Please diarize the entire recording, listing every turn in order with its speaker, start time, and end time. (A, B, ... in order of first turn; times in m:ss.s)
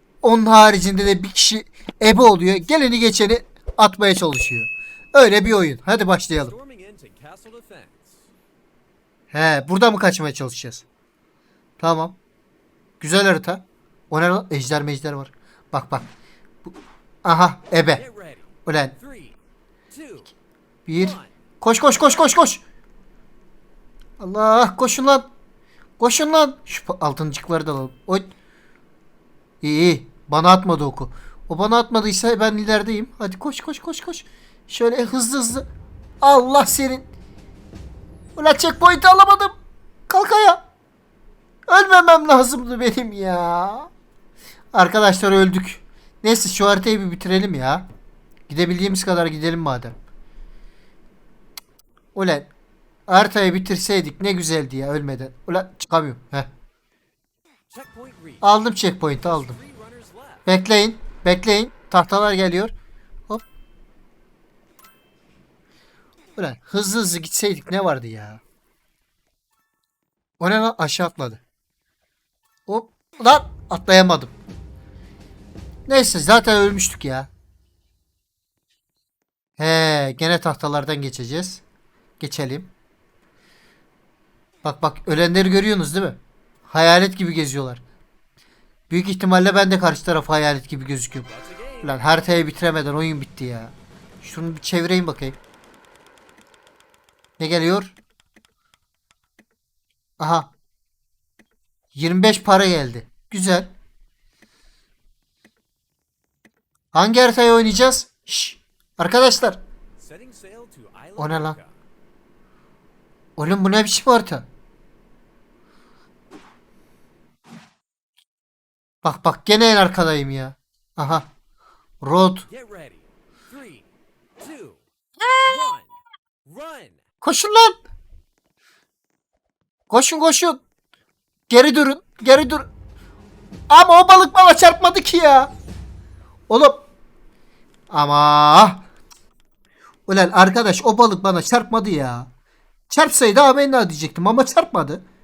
0:00.2-0:06.5 A
0:06.4-0:08.3 B
0:09.3-0:10.8 A
0:11.8-0:12.2 A
0:13.0-0:16.0 A
0:16.6-0:18.0 A
0:18.0-0:18.5 B
0:18.6-0:19.0 A
0:19.0-0:19.4 B
0:19.9-0:20.3 B
0:20.9-0:22.6 A
0:21.0-0:21.3 B
0:24.2-0:25.3 A
0:26.0-0:28.3 A
0:29.6-0:35.7 A
0:36.2-0:37.1 A
0:38.4-0:39.5 A
0:40.1-0:40.6 A
0:41.7-0:43.9 A
0:44.7-0:47.8 A
0:48.5-0:49.9 A
0:52.1-0:52.5 A
0:53.1-0:56.5 A
0:57.7-0:58.6 B
0:58.4-0:59.6 A
0:59.1-1:00.5 B
1:00.4-1:02.7 A
1:06.4-1:08.4 A
1:10.4-1:11.4 A
1:12.7-1:14.4 A
1:15.9-1:17.3 A
1:19.6-1:21.6 A
1:22.2-1:22.7 A
1:24.6-1:27.8 A
1:28.9-1:31.3 A
1:31.3-1:32.0 B
1:31.8-1:35.4 A
1:37.4-1:38.0 A
1:40.2-1:40.5 A
1:41.9-1:43.7 A
1:46.9-1:49.6 A
1:50.0-1:51.7 B
1:51.2-1:51.6 A
1:53.4-1:54.5 A
1:59.0-2:01.3 A
2:02.0-2:02.5 A
2:02.5-2:03.8 B
2:04.4-2:04.8 B
2:05.2-2:05.6 A
2:05.4-2:07.0 B
2:07.2-2:07.8 A
2:09.9-2:10.6 A
2:11.5-2:12.7 A
2:13.7-2:15.5 A
2:16.5-2:16.8 A
2:17.9-2:18.8 A
2:20.1-2:22.3 A
2:22.9-2:25.0 A